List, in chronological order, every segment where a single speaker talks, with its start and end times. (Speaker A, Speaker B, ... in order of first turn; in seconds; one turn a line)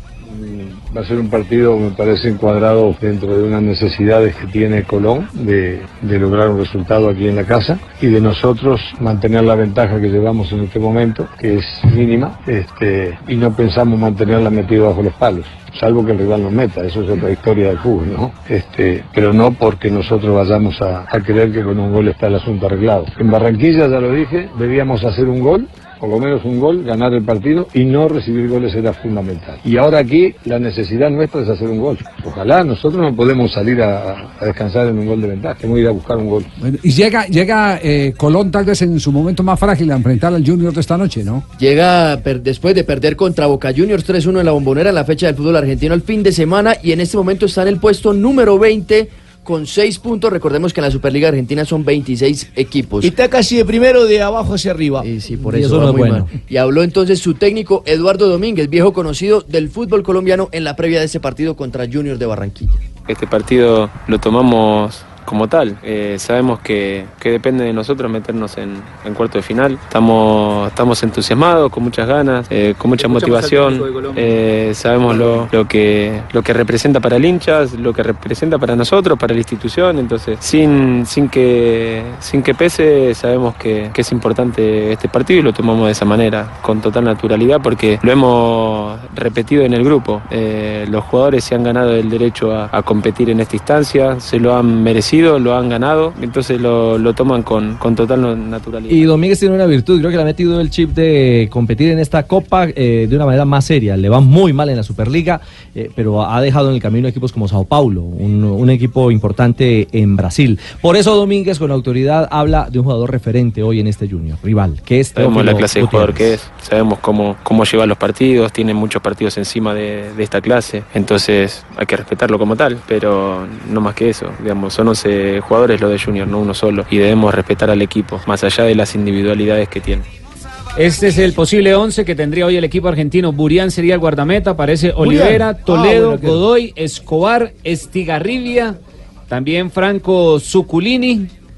Speaker A: 0.2-36.5
Speaker B: 36.6-41.4
Speaker C: 41.6-53.1
Speaker D: 53.0-55.0
Speaker C: 55.0-62.8
Speaker E: 55.4-56.3
Speaker F: 63.1-99.1
Speaker E: 98.9-116.4
Speaker F: 115.1-130.1
Speaker G: 130.8-138.8
Speaker G: 139.3-141.3